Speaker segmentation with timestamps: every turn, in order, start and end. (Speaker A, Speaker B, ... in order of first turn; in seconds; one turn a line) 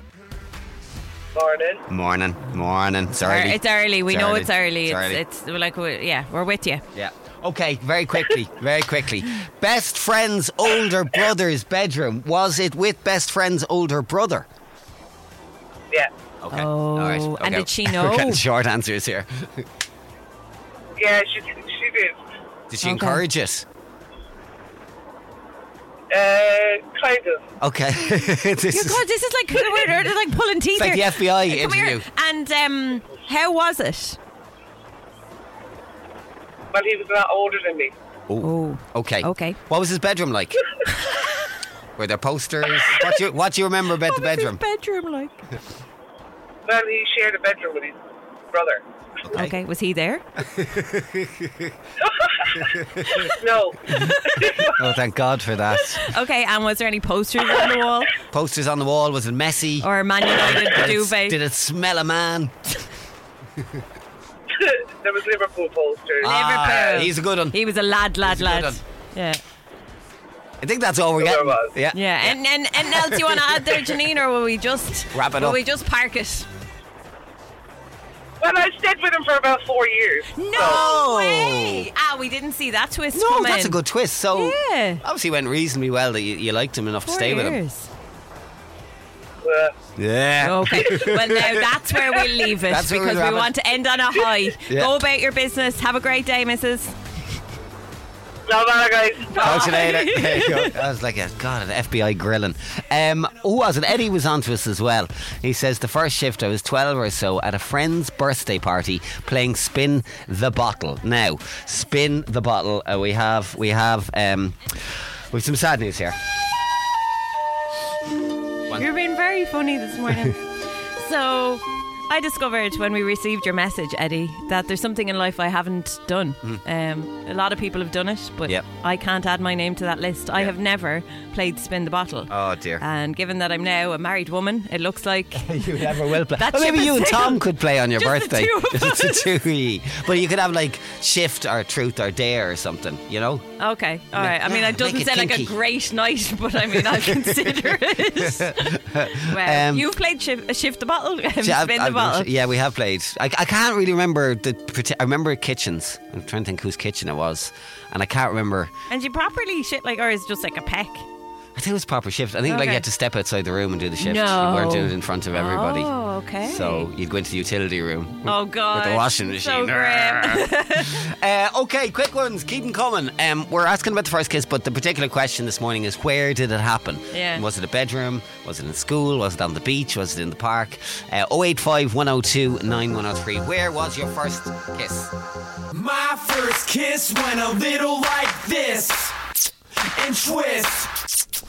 Speaker A: 1.4-1.8
Speaker B: 1.9-5.2
Speaker C: 3.2-6.8
Speaker B: 6.9-14.5
Speaker B: 16.4-19.7
Speaker C: 16.5-18.4
Speaker A: 21.0-22.2
Speaker B: 22.7-23.7
Speaker C: 22.8-23.2
Speaker A: 26.1-27.4
Speaker B: 27.6-29.0
Speaker C: 28.7-34.2
Speaker B: 30.8-32.0
Speaker A: 36.7-37.9
Speaker B: 38.3-40.6
Speaker C: 38.4-39.6
Speaker C: 41.0-41.3
Speaker B: 42.0-44.6
Speaker C: 44.0-45.4
Speaker A: 46.7-48.0
Speaker A: 48.5-48.8
Speaker B: 49.3-49.6
Speaker C: 49.3-50.2
Speaker B: 50.4-51.7
Speaker A: 52.0-52.5
Speaker B: 52.6-53.3
Speaker A: 53.3-54.7
Speaker B: 54.8-56.0
Speaker C: 56.0-58.1
Speaker B: 58.3-62.6
Speaker C: 59.8-61.4
Speaker A: 64.6-66.3
Speaker B: 66.2-67.6
Speaker C: 66.2-69.4
Speaker B: 68.2-68.8
Speaker B: 70.6-73.8
Speaker A: 71.2-71.7
Speaker C: 71.9-76.5
Speaker B: 75.1-75.6
Speaker A: 78.4-80.8
Speaker C: 80.3-83.8
Speaker B: 80.5-81.9
Speaker B: 83.1-87.6
Speaker C: 84.3-85.0
Speaker C: 87.1-87.9
Speaker A: 89.4-89.8
Speaker B: 90.0-91.7
Speaker C: 90.4-97.0
Speaker B: 92.5-93.5
Speaker B: 94.7-95.0
Speaker A: 98.5-99.7
Speaker C: 99.3-100.8
Speaker B: 99.4-116.2
Speaker C: 118.7-137.4
Speaker B: 132.3-132.8
Speaker B: 135.4-143.5
Speaker C: 138.0-139.3
Speaker C: 143.6-152.3
Speaker B: 144.1-145.5
Speaker B: 146.7-149.9
Speaker B: 151.4-158.7
Speaker C: 158.9-161.1
Speaker B: 161.6-165.9
Speaker C: 162.5-162.8
Speaker C: 164.0-166.9
Speaker B: 166.4-185.1
Speaker C: 168.3-171.0
Speaker C: 177.1-177.4
Speaker D: 185.7-189.2
Speaker D: 189.9-191.1